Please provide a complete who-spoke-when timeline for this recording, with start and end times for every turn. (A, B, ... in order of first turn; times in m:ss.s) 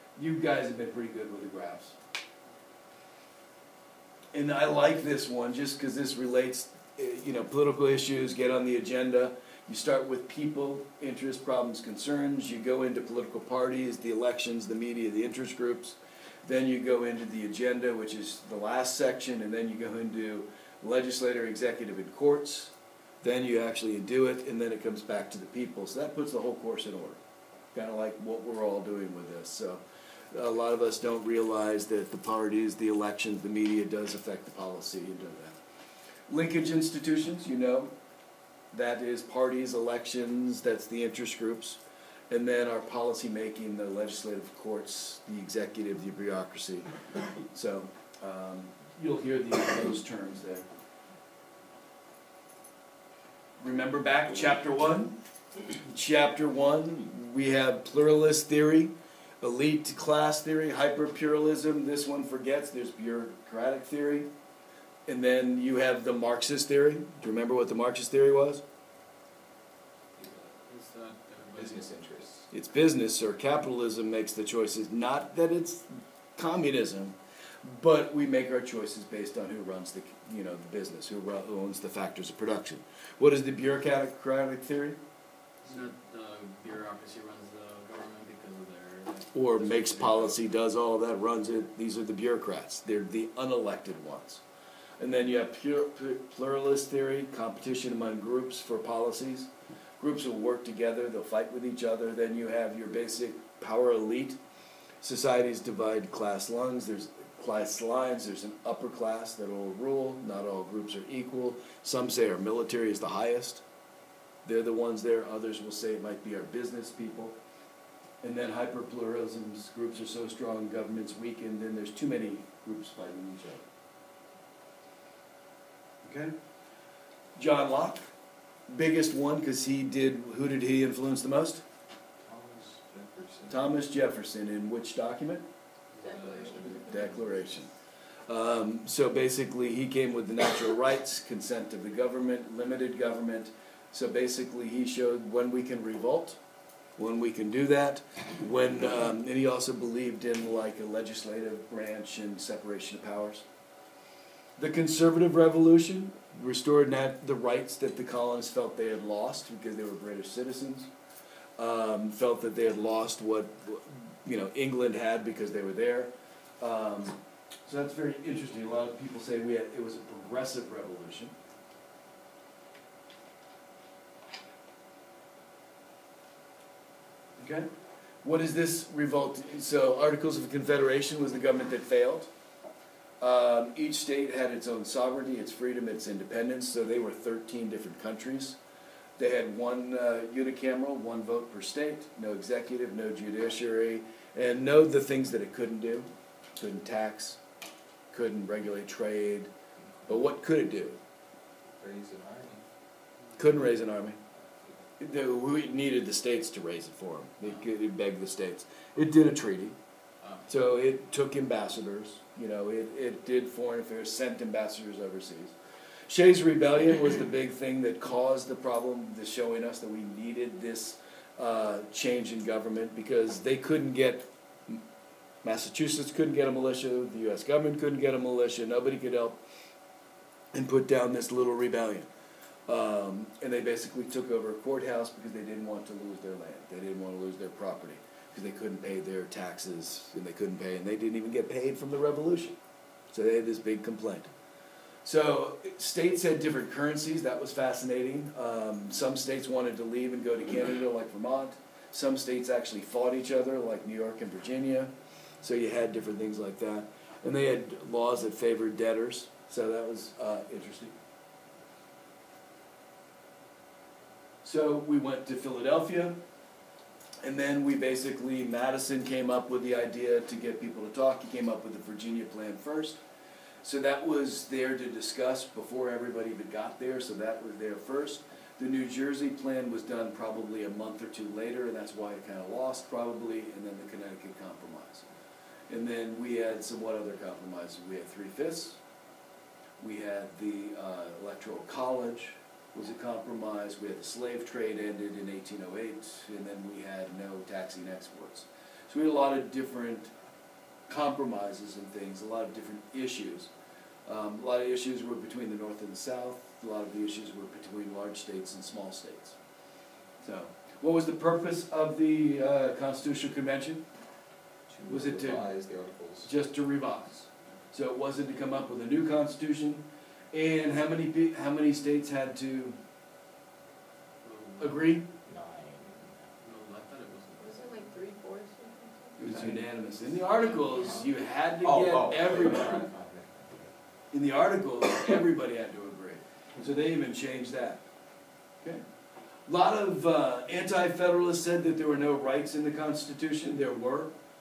0:00.2-0:02.0 A
0:04.3-0:27.2 A
0:27.7-0:35.6 A
0:36.3-0:37.9 A
0:38.7-0:46.9 A
0:47.5-0:50.7 A
0:53.6-0:55.2 A
0:55.9-1:04.3 A
1:05.1-1:08.6 A
1:10.2-1:11.9 B
1:11.6-1:12.5 C
1:12.5-1:25.0 A
1:25.6-1:30.5 B
1:29.3-1:34.4 A
1:35.0-1:44.4 A
1:45.0-1:53.6 A
1:54.4-1:57.4 A
1:58.2-2:03.6 A
2:06.0-2:06.4 A
2:07.4-2:08.1 A
2:08.7-2:11.6 A
2:12.2-2:13.7 C
2:13.5-2:15.5 A
2:16.0-2:17.2 B
2:16.0-2:17.0 D
2:16.3-2:17.0 C
2:16.8-2:17.7 A
2:18.3-2:26.4 A
2:27.0-2:33.4 A
2:34.6-2:40.9 A
2:41.6-2:51.4 A
2:57.4-2:57.7 A
2:58.2-3:02.3 A
3:03.2-3:08.6 A
3:09.2-3:17.4 A
3:18.1-3:19.5 A
3:20.1-3:21.0 A
3:21.8-3:22.6 C
3:23.4-3:24.2 A
3:25.0-3:29.8 A
3:30.2-3:30.5 B
3:30.5-3:35.6 A
3:36.1-3:44.8 A
3:45.4-3:49.4 A
3:50.5-3:52.1 A
3:52.7-4:02.6 A
4:03.1-4:04.3 A
4:05.0-4:20.9 A
4:24.4-4:26.2 A
4:27.2-4:33.0 A
4:33.6-4:45.1 A
4:45.7-4:48.8 A
4:49.8-5:00.1 A
5:00.9-5:03.5 A
5:04.1-5:09.4 A
5:10.2-5:13.8 A
5:14.7-5:16.3 C
5:14.9-5:15.5 A
5:16.2-5:22.8 A
5:24.2-5:24.9 B
5:24.6-5:25.1 A
5:25.2-5:26.3 C
5:26.4-5:27.8 B
5:27.4-5:29.4 D
5:29.2-5:32.8 A
5:30.3-5:31.0 B
5:31.6-5:33.7 C
5:34.1-5:37.8 A
5:39.5-5:44.2 A